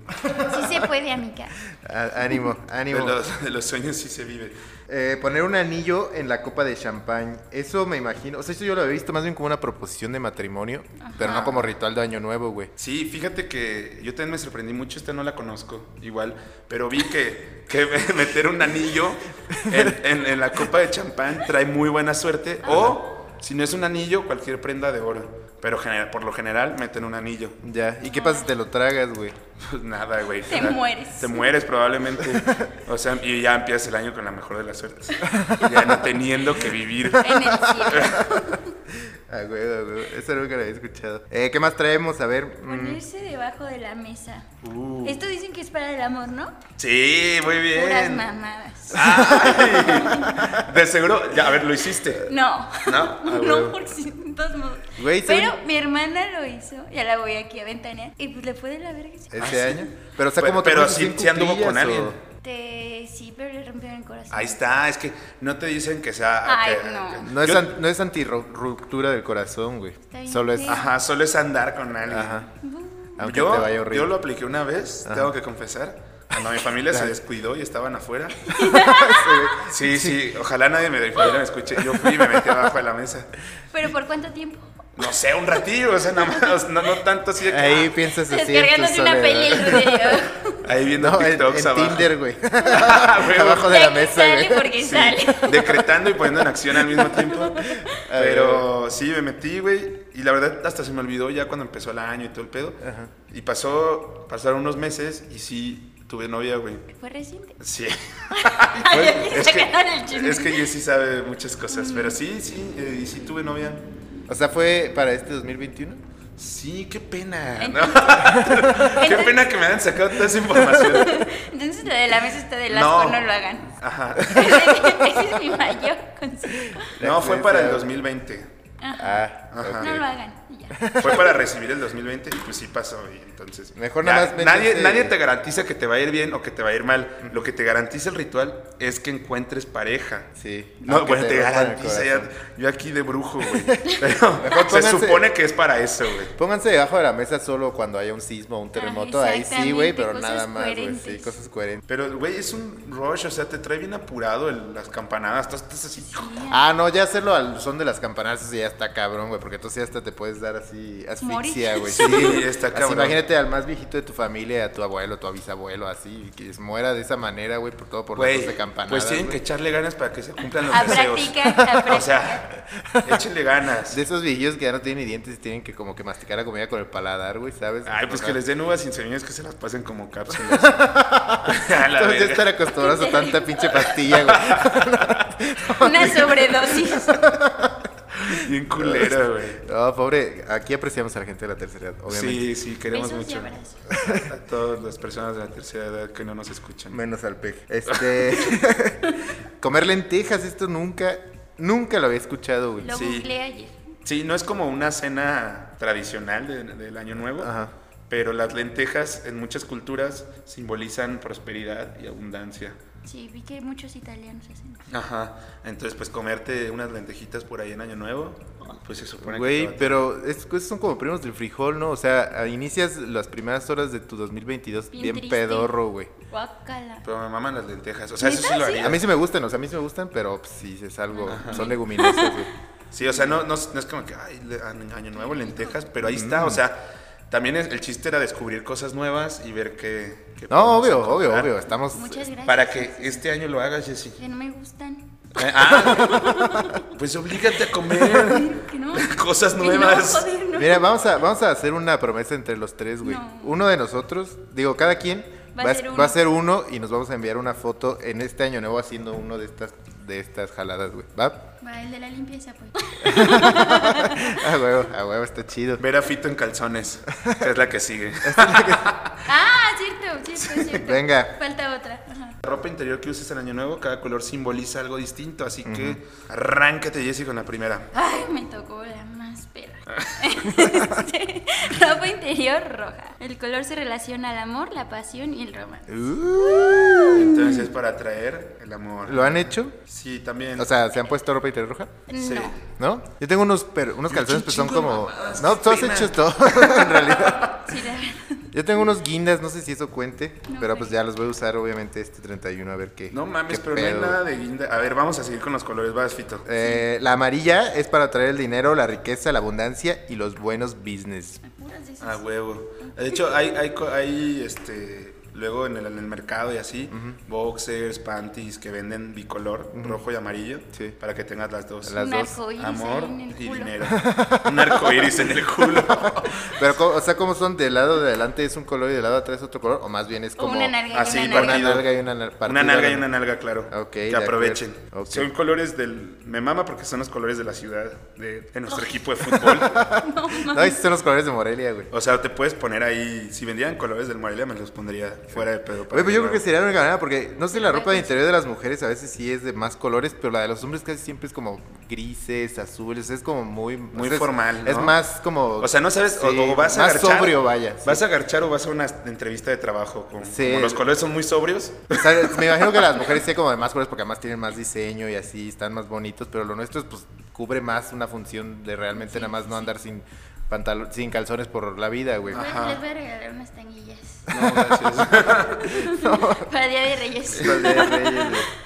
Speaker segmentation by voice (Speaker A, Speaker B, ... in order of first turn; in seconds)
Speaker A: 0.4-1.5, 11.0-11.5, 22.6-22.9, 28.0-28.5, 30.5-31.5, 37.1-38.7, 42.6-44.5, 45.0-46.6, 47.7-50.4, 52.2-59.5, 62.4-64.6, 66.4-67.3, 70.0-70.9, 72.6-73.3, 78.5-79.6, 83.7-84.8, 88.2-90.6, 93.5-95.8, 96.9-98.0, 106.9-107.6, 108.3-110.7, 111.7-112.2, 117.6-119.5, 120.7-126.9, 128.8-131.2, 148.7-151.3, 156.0-156.6, 161.2-162.4, 170.7-172.4, 182.7-183.7, 185.8-187.3, 192.9-193.8, 202.8-203.8, 213.0-214.8, 224.9-225.7, 226.3-227.0, 228.2-228.9, 231.1-232.4, 235.2-235.8, 241.9-243.2, 244.2-246.9, 248.0-250.8, 253.0-253.6, 255.5-256.2, 261.6-264.5, 269.2-272.4, 277.9-287.7, 292.1-292.6, 297.5-298.5, 300.5-300.9, 311.4-312.2, 312.8-313.1, 321.9-323.7, 330.4-331.8, 338.7-339.0, 339.8-340.8, 347.5-348.2, 368.9-369.7, 372.3-374.3, 375.5-378.4
Speaker B: 1.7-3.2, 4.9-12.7, 19.5-19.9, 27.6-29.4, 32.3-32.7, 35.3-35.9, 37.3-38.4, 38.9-43.0, 49.3-50.7, 55.0-55.6, 59.3-62.2, 67.2-70.8, 72.1-72.5, 73.2-74.1, 75.0-75.3, 78.6-80.2, 81.9-82.6, 87.5-90.2, 91.0-94.8, 97.8-98.7, 102.8-103.1, 114.3-116.0, 118.4-118.8, 126.7-127.9, 128.9-130.1, 130.7-131.4, 133.8-135.1, 140.3-142.3, 143.4-143.8, 144.4-145.3, 146.3-151.8, 156.5-169.4, 170.8-171.9, 172.6-173.2, 173.9-178.4, 180.3-192.4, 193.9-194.3, 196.9-202.9, 207.4-207.7, 219.2-226.1, 228.8-232.5, 236.0-236.6, 240.5-242.3, 245.8-246.7, 250.5-261.5, 263.0-265.8, 267.1-267.5, 268.2-268.9, 270.7-271.3, 275.6-276.0, 280.6-281.0, 285.9-287.6, 289.1-289.8, 290.6-292.0, 292.7-297.6, 298.5-304.2, 306.4-311.4, 316.9-317.2, 319.7-320.0, 321.9-322.4, 323.9-333.1, 333.7-335.3, 339.2-341.9, 345.4-358.0, 360.2-360.8, 361.9-372.5, 374.3-376.5, 377.3-378.5
Speaker C: 2.9-4.5, 11.2-11.7, 12.8-27.6, 29.6-38.2, 44.6-45.2, 46.8-48.3, 48.9-53.8, 59.4-62.2, 64.3-67.7, 70.6-72.5, 73.2-78.5, 79.6-83.3, 85.0-87.9, 90.6-92.1, 92.7-93.8, 94.8-106.8, 107.6-113.9, 116.4-121.3, 122.7-125.0, 127.0-128.5, 129.5-130.0, 131.0-140.3, 140.8-146.3, 151.9-156.3, 161.9-163.2, 168.1-172.5, 173.0-174.0, 177.8-180.9, 181.4-182.5, 183.7-185.3, 188.2-189.6, 192.1-197.0, 197.9-198.3, 202.9-203.3, 204.0-207.5, 208.1-212.8, 214.9-220.1, 227.0-229.0, 231.3-231.8, 232.9-241.6, 242.4-244.2, 245.3-246.2, 246.8-250.3, 265.8-269.3, 270.4-270.8, 272.4-277.9, 280.0-280.2, 287.1-290.7, 292.1-292.6, 294.1-297.6, 303.1-306.5, 312.0-326.6, 330.9-339.8, 341.9-346.4, 353.9-355.0, 355.6-362.9, 372.3-372.8, 374.3-375.8, 377.3-378.4